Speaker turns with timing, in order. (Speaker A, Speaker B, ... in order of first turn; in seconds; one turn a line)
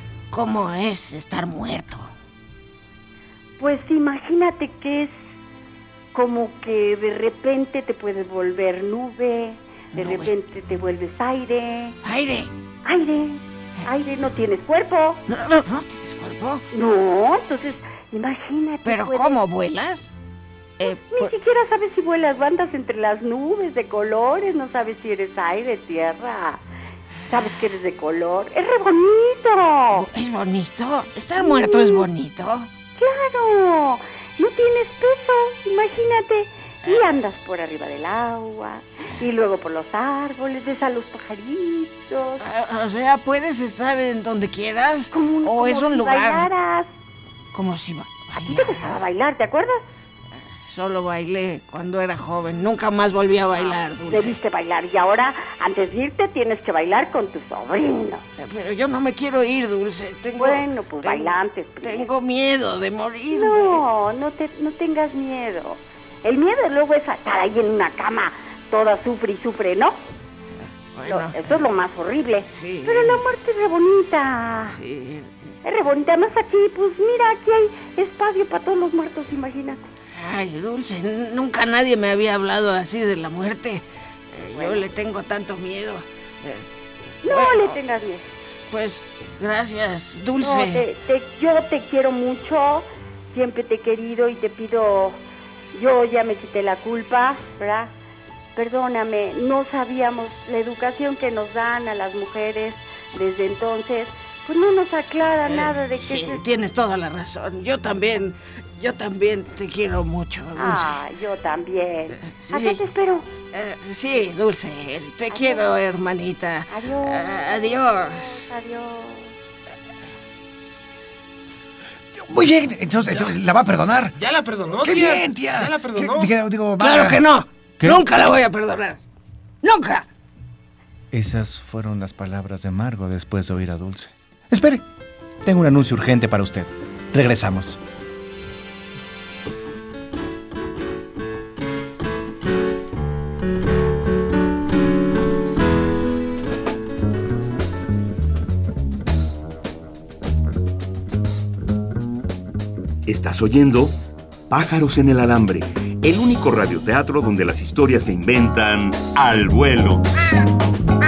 Speaker A: 0.3-2.1
Speaker B: 3.6-5.1
Speaker B: 6.1-12.0
Speaker A: 9.9-10.3
Speaker A: 12.0-12.5
Speaker B: 12.8-15.2
Speaker A: 15.3-16.6
Speaker B: 16.7-19.4
Speaker A: 18.9-20.1
Speaker A: 20.8-21.3
Speaker B: 20.8-26.6
Speaker B: 27.3-30.1
Speaker A: 29.9-32.7
Speaker B: 31.4-32.1
Speaker B: 33.0-42.5
Speaker A: 42.4-46.5
Speaker B: 45.1-46.9
Speaker A: 47.5-49.0
Speaker B: 48.5-49.8
Speaker A: 50.6-54.4
Speaker B: 53.6-58.2
Speaker A: 58.4-63.8
Speaker B: 60.4-62.1
Speaker B: 63.3-70.0
Speaker A: 71.0-71.6
Speaker B: 71.1-74.8
Speaker A: 72.5-73.2
Speaker A: 74.7-75.3
Speaker B: 75.6-79.8
Speaker A: 80.1-86.7
Speaker B: 84.5-84.8
Speaker B: 87.2-88.3
Speaker A: 87.2-87.8
Speaker A: 88.7-90.9
Speaker B: 90.4-95.2
Speaker B: 95.7-97.9
Speaker B: 98.6-106.4
Speaker A: 105.4-110.9
Speaker B: 110.5-113.3
Speaker A: 112.3-112.8
Speaker A: 113.5-118.5
Speaker B: 115.3-115.8
Speaker B: 116.7-119.3
Speaker C: 122.1-124.2
Speaker D: 124.2-126.3
Speaker C: 124.8-127.2
Speaker A: 126.8-129.0
Speaker A: 129.6-130.1
Speaker C: 131.1-134.8
Speaker C: 135.4-137.8
Speaker E: 153.1-154.0
Speaker E: 154.5-160.1